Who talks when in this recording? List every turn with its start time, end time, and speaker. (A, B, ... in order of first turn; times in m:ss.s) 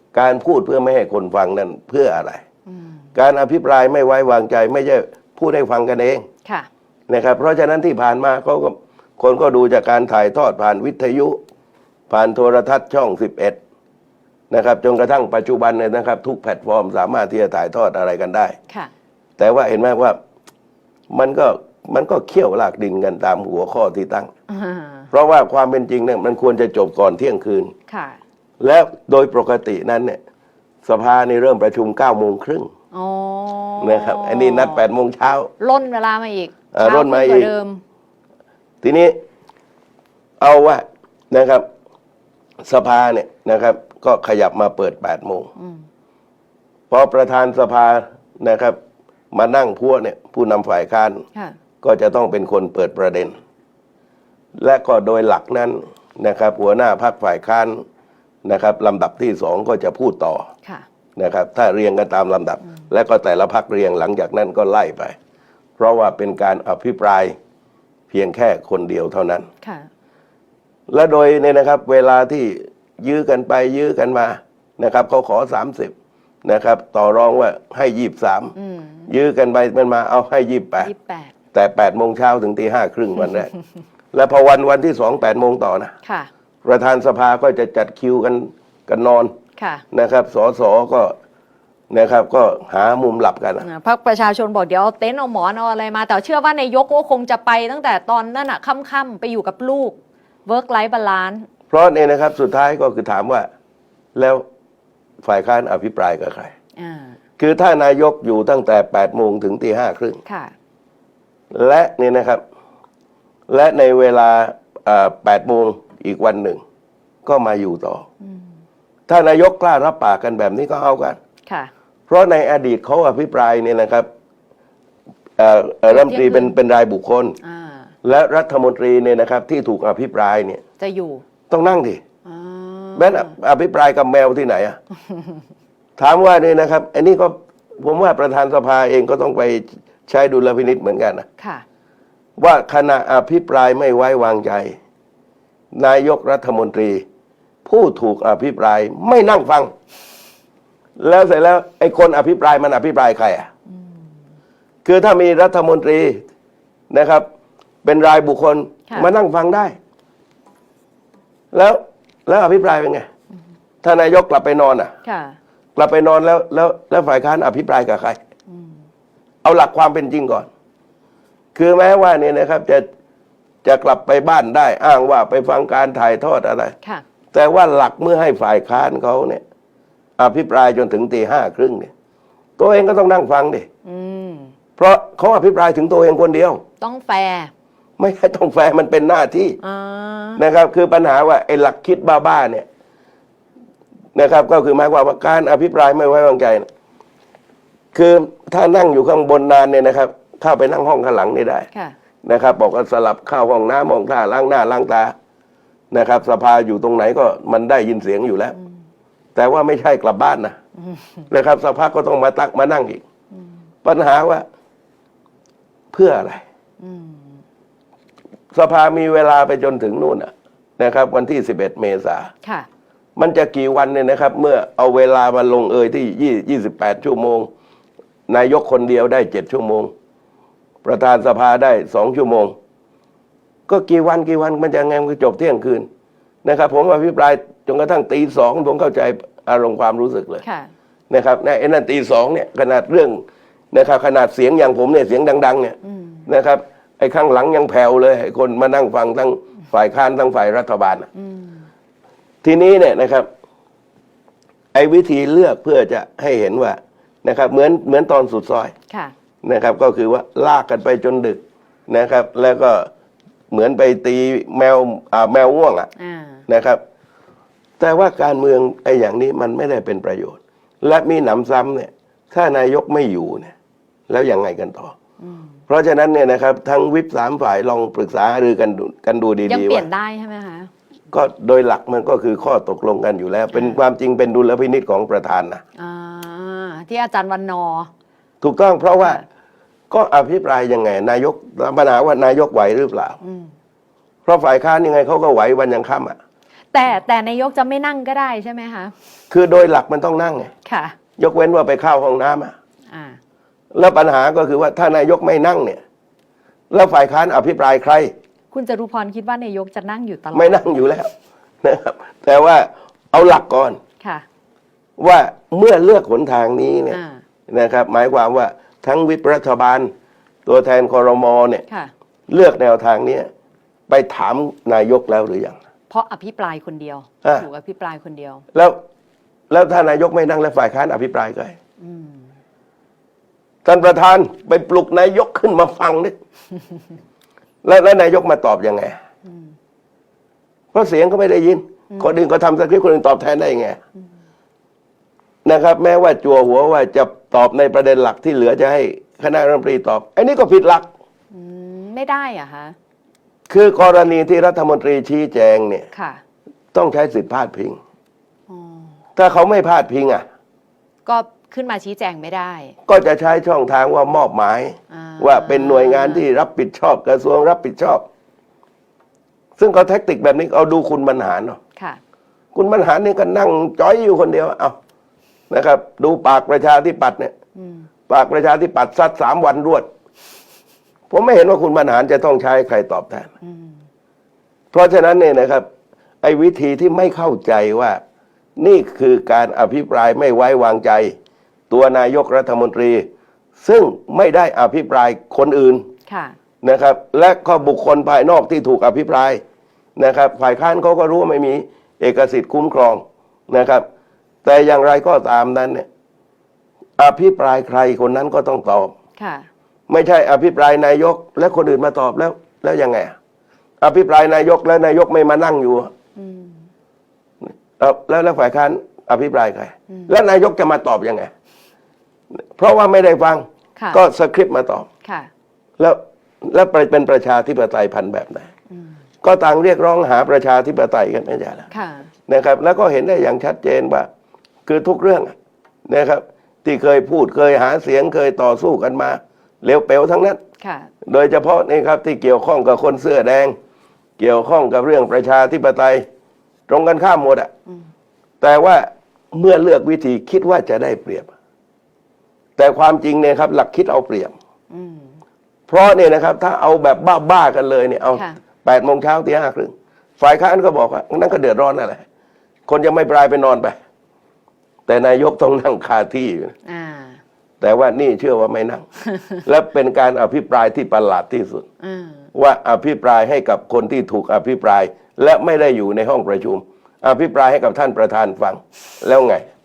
0:00.1-0:02.4 A
0:02.7-0:03.0 B
0:03.1-0:06.3 A
0:07.1-0:11.4 A
0:12.1-0:13.6 A
0:14.5-0:18.6 A
0:19.4-0:20.2 A
0:21.1-0:24.3 A
0:24.5-0:25.1 B
0:25.1-0:27.7 A
0:27.9-0:28.2 B
0:28.6-0:30.2 A
0:30.8-0:32.7 A
0:32.9-0:34.8 B
0:33.8-0:35.5 A
0:35.6-0:37.8 B
0:36.7-0:37.5 A
0:38.8-0:39.2 A
0:40.4-0:41.6 A
0:42.6-0:45.5 A
0:45.6-0:45.8 B
0:46.9-0:48.8 A
0:49.3-0:51.2 A
0:51.8-0:53.4 A
0:54.6-0:57.8 A
0:58.4-1:00.5 A
1:01.2-1:05.2 A
1:05.8-1:07.4 A
1:08.1-1:09.5 A
1:09.6-1:09.9 B
1:10.9-1:18.5 A
1:18.6-1:19.1 B
1:19.1-1:20.9 A
1:20.8-1:21.3 B
1:21.5-1:23.5 A
1:24.1-1:25.9 A
1:26.0-1:26.3 B
1:26.6-1:29.3 A
1:29.6-1:29.8 B
1:29.9-1:31.2 A
1:31.9-1:33.6 A
1:33.6-1:41.5 B
1:41.7-1:43.5 A
1:44.1-1:44.4 A
1:45.2-1:46.5 A
1:46.8-1:47.2 B
1:47.4-1:50.2 A
1:50.2-1:50.5 B
1:51.5-1:52.4 A
1:53.5-1:56.6 A
1:57.2-1:58.1 A
1:58.2-1:58.5 B
1:59.1-2:01.2 A
2:02.1-2:04.1 A
2:05.4-2:07.4 A
2:05.9-2:06.5 B
2:07.4-2:07.9 B
2:08.0-2:10.6 A
2:10.8-2:11.2 B
2:11.5-2:12.0 A
2:12.2-2:13.3 B
2:12.9-2:14.8 A
2:16.0-2:21.2 A
2:21.4-2:21.6 B
2:22.4-2:24.8 A
2:25.7-2:27.0 A
2:27.6-2:29.7 A
2:31.0-2:33.5 A
2:34.8-2:36.2 A
2:36.9-2:37.3 A
2:37.8-2:39.8 A
2:41.5-2:43.1 A
2:43.8-2:44.9 A
2:45.0-2:45.4 B
2:45.8-2:48.2 A
2:48.5-2:48.7 B
2:49.4-2:50.5 A
2:51.5-2:52.8 A
2:53.6-2:56.7 A
2:57.3-2:59.4 A
3:00.2-3:01.9 A
3:02.6-3:03.7 A
3:03.8-3:04.5 B
3:04.8-3:06.6 A
3:06.8-3:07.5 B
3:08.0-3:09.6 A
3:09.6-3:10.4 B
3:10.4-3:12.7 A
3:14.1-3:16.7 A
3:17.9-3:21.7 A
3:22.2-3:25.1 A
3:25.9-3:28.6 A
3:29.3-3:30.6 A
3:30.8-3:31.2 B
3:31.3-3:33.0 A
3:33.8-3:34.4 A
3:35.9-3:36.4 A
3:36.8-3:37.4 B
3:38.5-3:42.3 A
3:43.2-3:47.5 A
3:48.3-3:49.9 A
3:50.8-3:52.6 A
3:53.7-3:55.9 A
3:56.4-4:00.4 A
4:00.4-4:00.7 B
4:01.1-4:11.1 A
4:05.8-4:06.2 B
4:11.2-4:11.6 B
4:12.4-4:13.3 A
4:14.7-4:18.7 A
4:19.4-4:22.9 A
4:23.5-4:25.9 A
4:26.0-4:26.4 B
4:26.5-4:26.8 A
4:27.8-4:33.5 A
4:34.1-4:34.9 A
4:35.2-4:35.6 B
4:35.7-4:39.9 A
4:39.5-4:40.7 B
4:41.1-4:45.6 A
4:43.5-4:43.8 B
4:45.8-4:47.9 B
4:48.4-4:49.2 A
4:49.9-4:53.2 A
4:53.2-4:53.5 B
4:54.2-4:56.2 A
4:56.7-4:58.9 B
4:59.3-5:00.5 A
5:00.6-5:01.0 B
5:01.2-5:02.5 A
5:02.9-5:03.2 B
5:03.7-5:05.8 A
5:06.7-5:08.1 A
5:08.5-5:10.7 B
5:10.3-5:11.1 A
5:11.6-5:13.8 A
5:14.0-5:14.2 B
5:15.0-5:19.9 A
5:16.9-5:17.2 B
5:20.4-5:21.6 A
5:22.3-5:23.3 A
5:23.9-5:25.6 A
5:25.9-5:28.4 B
5:28.5-5:28.8 A
5:29.5-5:31.6 A
5:31.8-5:32.2 B
5:33.6-5:36.1 A
5:37.6-5:39.0 A
5:40.7-5:43.8 A
5:45.4-5:50.9 A
5:51.3-5:52.8 B
5:53.5-5:55.9 A
5:55.9-5:56.2 B
5:56.7-5:57.8 A
5:58.5-5:58.9 B
5:59.2-6:00.2 A
6:01.0-6:02.7 B
6:02.8-6:08.0 A
6:04.9-6:06.2 B
6:09.6-6:11.6 A
6:12.5-6:14.8 A
6:15.5-6:17.3 A
6:17.6-6:17.9 B
6:18.1-6:19.9 A
6:21.1-6:23.3 A
6:23.4-6:23.8 B
6:24.7-6:25.7 A
6:26.2-6:28.0 A
6:28.6-6:31.2 A
6:31.7-6:35.9 A
6:36.1-6:36.4 B
6:36.6-6:39.4 A
6:40.0-6:43.8 A
6:44.4-6:45.9 A
6:47.0-6:48.9 A
6:49.2-6:49.5 B
6:49.9-6:53.1 A
6:53.8-6:55.9 A
6:56.2-6:56.6 B
6:57.4-7:01.3 A
7:02.3-7:04.9 A
7:03.8-7:04.0 B
7:05.0-7:05.3 B
7:05.8-7:08.5 A
7:09.2-7:11.7 A
7:11.7-7:12.1 B
7:12.3-7:14.1 A
7:14.6-7:15.3 A
7:15.9-7:20.4 A
7:20.6-7:20.9 B
7:21.0-7:23.6 A
7:24.2-7:26.0 A
7:26.7-7:27.5 A
7:28.4-7:31.3 A
7:32.6-7:34.3 A
7:34.7-7:35.2 B
7:35.7-7:42.0 A
7:38.1-7:38.4 B
7:42.7-7:43.8 A
7:44.9-7:46.5 A
7:46.6-7:47.2 B
7:47.6-7:48.8 A
7:49.1-7:49.3 B
7:49.4-7:51.6 A
7:51.8-7:52.3 B
7:52.3-7:59.5 A